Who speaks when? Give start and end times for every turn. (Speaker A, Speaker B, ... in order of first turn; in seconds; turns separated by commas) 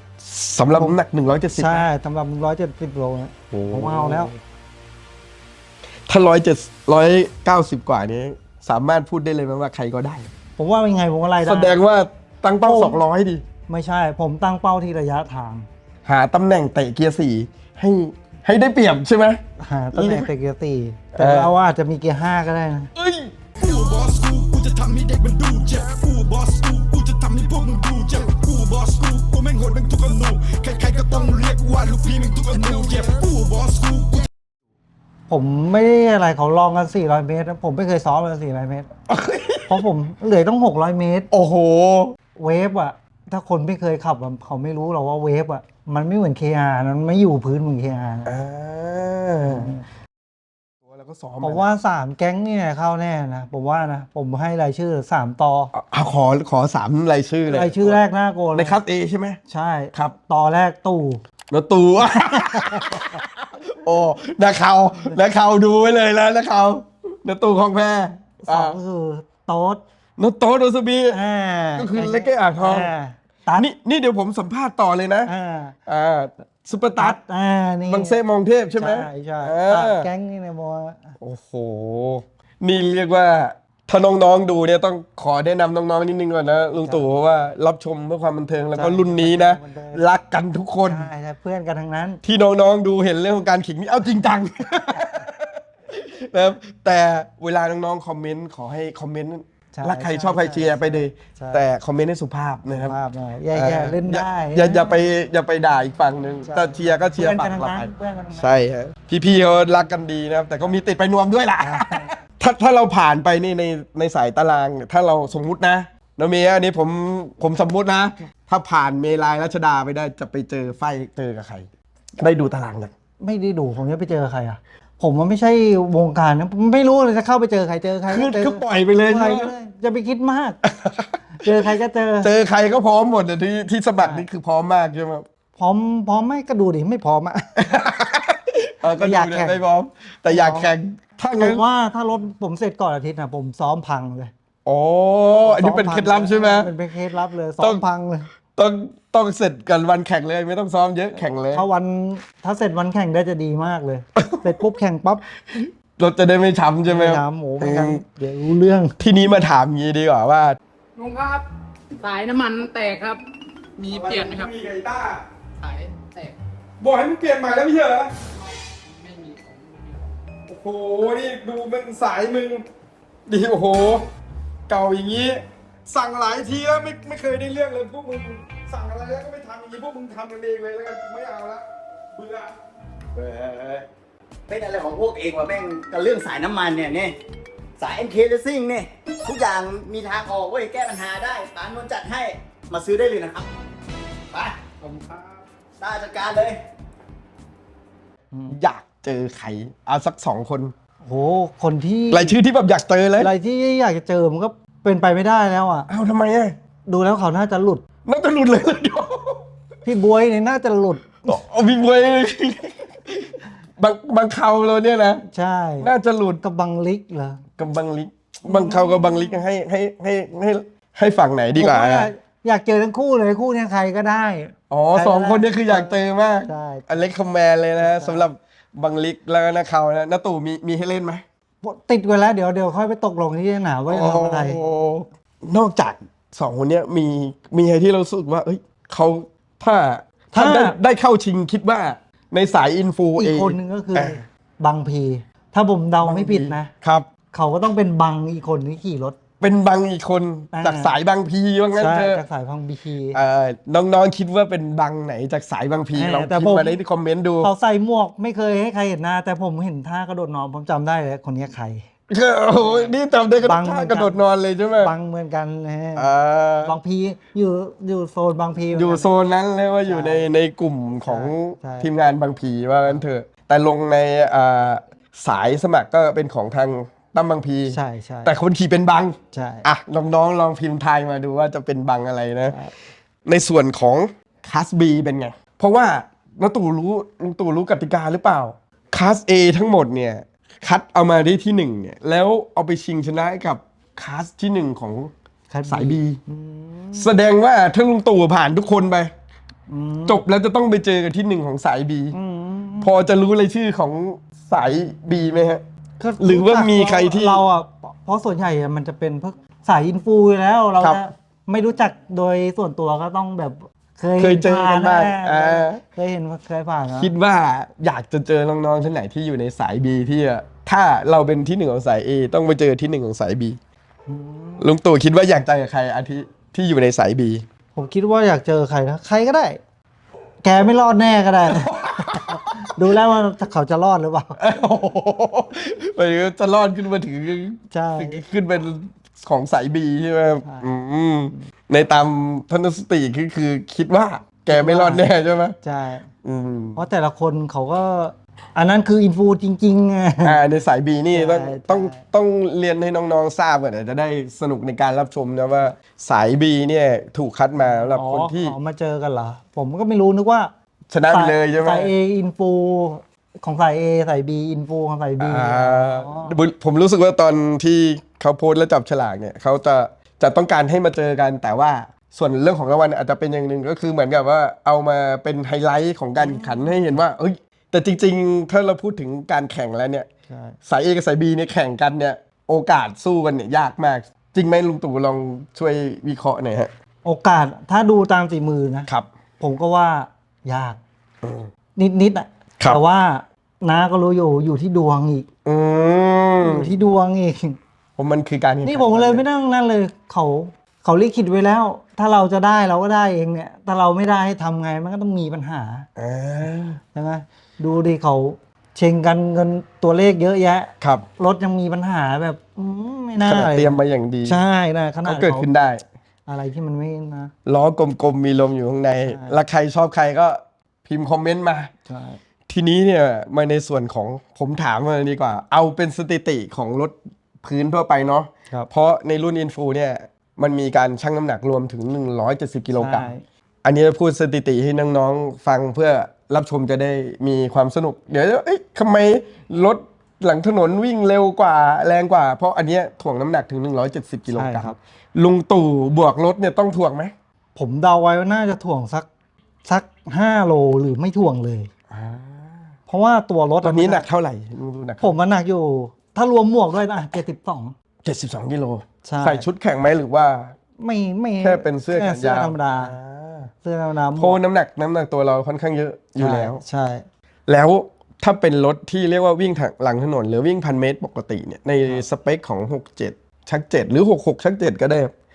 Speaker A: 0.2-1.9, Speaker B: 1.5-4.3, Speaker A: 3.5-4.3, Speaker A: 6.1-10.3, Speaker B: 10.6-11.8, Speaker A: 11.4-13.4, Speaker B: 12.6-13.0, Speaker B: 13.7-15.7, Speaker A: 16.1-19.4, Speaker B: 19.6-22.9, Speaker A: 19.9-20.3, Speaker A: 21.1-21.5, Speaker A: 22.9-23.5, Speaker C: 23.6-34.2, Speaker A: 32.5-33.0, Speaker B: 35.3-38.9, Speaker A: 39.1-39.8, Speaker B: 39.7-41.3, Speaker A: 41.3-42.1, Speaker B: 42.4-48.4, Speaker A: 48.2-49.8, Speaker B: 49.5-49.8, Speaker A: 50.8-51.6, Speaker B: 51.4-55.7, Speaker A: 55.7-58.0, Speaker B: 57.5-58.8, Speaker A: 58.5-59.4, Speaker B: 59.5-61.2, Speaker A: 61.5-68.8, Speaker B: 62.4-63.1, Speaker B: 68.4-69.8, Speaker A: 70.2-71.2, Speaker B: 71.1-73.7, Speaker A: 71.8-72.9, Speaker A: 73.6-75.3, Speaker B: 75.2-75.8, Speaker A: 75.9-77.2, Speaker B: 77.0-78.2, Speaker A: 77.9-80.1, Speaker B: 78.8-81.2, Speaker A: 81.2-91.1, Speaker B: 86.7-87.1, Speaker B: 88.7-90.0, Speaker B: 90.8-92.2, Speaker A: 92.2-102.9, Speaker B: 99.7-101.6, Speaker B: 102.7-105.0, Speaker A: 103.5-121.7, Speaker B: 106.4-108.5, Speaker B: 111.6-112.2, Speaker A: 122.2-122.9, Speaker B: 123.2-130.6, Speaker A: 128.1-129.5, Speaker A: 130.6-131.4, Speaker B: 131.4-132.3, Speaker A: 132.2-135.2, Speaker B: 134.0-134.3, Speaker B: 135.6-137.5, Speaker A: 137.6-141.6, Speaker B: 138.9-139.6, Speaker B: 140.3-140.7, Speaker B: 141.4-144.3, Speaker A: 144.6-146.7, Speaker B: 145.4-148.3, Speaker A: 148.5-151.6, Speaker B: 151.5-155.2, Speaker A: 154.2-154.4, Speaker A: 155.4-158.0, Speaker B: 156.9-159.0, Speaker A: 159.0-160.6, Speaker D: 161.0-161.4, Speaker D: 162.0-163.2, Speaker D: 163.8-164.5, Speaker A: 163.8-165.2, Speaker D: 165.6-166.3, Speaker A: 166.8-168.1, Speaker D: 168.8-170.0, Speaker A: 170.5-172.6, Speaker A: 173.3-174.0, Speaker A: 174.7-181.6, Speaker A: 182.1-182.5, Speaker E: 183.1-183.8, Speaker E: 184.5-187.2, Speaker E: 187.8-193.5, Speaker E: 194.3-194.7, Speaker E: 195.8-196.6, Speaker A: 198.5-200.7, Speaker B: 201.0-202.4, Speaker A: 202.1-203.3, Speaker B: 203.2-205.9, Speaker A: 205.9-206.5, Speaker B: 206.9-207.8, Speaker A: 208.1-209.4, Speaker B: 209.8-211.4, Speaker A: 211.3-215.2, Speaker B: 215.3-217.4, Speaker A: 215.8-216.4, Speaker A: 217.6-222.1, Speaker B: 218.4-219.4, Speaker B: 221.5-226.9, Speaker A: 224.7-231.2, Speaker B: 227.8-228.3, Speaker B: 231.6-234.6, Speaker A: 233.9-244.2, Speaker B: 240.3-240.8, Speaker B: 243.2-246.7, Speaker A: 246.0-247.1, Speaker B: 247.3-249.2, Speaker A: 249.4-252.2, Speaker B: 250.5-251.0, Speaker B: 251.7-253.2, Speaker A: 253.1-257.5, Speaker B: 255.9-256.8, Speaker B: 257.4-261.8, Speaker A: 262.1-264.9, Speaker B: 262.5-264.2, Speaker B: 264.8-266.1, Speaker A: 265.9-266.8, Speaker B: 266.6-269.1, Speaker A: 268.7-282.6, Speaker B: 269.8-270.3, Speaker B: 271.0-271.9, Speaker B: 277.7-278.3, Speaker B: 279.3-279.6, Speaker B: 282.4-282.7, Speaker A: 283.2-295.1, Speaker B: 295.5-297.1, Speaker A: 295.7-296.2, Speaker A: 296.9-299.1, Speaker B: 299.7-300.2, Speaker A: 300.1-302.1, Speaker B: 302.1-302.9, Speaker A: 302.8-305.6, Speaker B: 306.0-317.1, Speaker A: 306.2-307.4, Speaker A: 314.2-315.8, Speaker A: 316.9-323.6, Speaker B: 324.1-324.7, Speaker A: 324.6-327.4, Speaker B: 327.7-329.6, Speaker B: 330.4-334.4, Speaker A: 331.5-332.7, Speaker A: 334.4-345.6, Speaker B: 337.7-338.2, Speaker B: 340.4-340.7, Speaker B: 344.5-345.0, Speaker B: 345.6-346.1, Speaker A: 346.2-346.8, Speaker B: 346.8-350.4, Speaker A: 350.2-358.5, Speaker B: 351.1-352.0, Speaker B: 357.6-360.5, Speaker A: 360.9-361.9, Speaker B: 361.1-366.4, Speaker A: 365.2-380.1, Speaker B: 376.2-376.7, Speaker B: 380.3-380.6, Speaker A: 380.6-386.7, Speaker B: 387.0-388.9, Speaker B: 389.4-390.8, Speaker A: 391.2-391.5, Speaker B: 391.8-395.3, Speaker A: 395.4-396.7, Speaker B: 396.4-397.6, Speaker A: 398.0-399.2, Speaker B: 398.6-405.9, Speaker A: 406.0-406.8, Speaker B: 406.9-415.5, Speaker A: 413.2-414.4, Speaker A: 415.0-415.8, Speaker B: 416.3-417.3, Speaker A: 417.4-421.7, Speaker B: 419.1-419.4, Speaker B: 421.9-422.2, Speaker A: 422.5-433.1, Speaker B: 432.7-433.2, Speaker A: 433.6-447.1, Speaker B: 444.3-444.8, Speaker B: 447.6-449.1, Speaker B: 449.6-451.7, Speaker A: 451.9-452.5, Speaker B: 452.9-454.1, Speaker A: 453.6-455.2, Speaker B: 455.0-457.7, Speaker A: 458.0-460.5, Speaker B: 459.0-459.5, Speaker B: 460.8-462.9, Speaker A: 461.4-463.5, Speaker B: 463.6-464.4, Speaker A: 464.1-466.6, Speaker B: 466.2-467.0, Speaker A: 467.5-475.1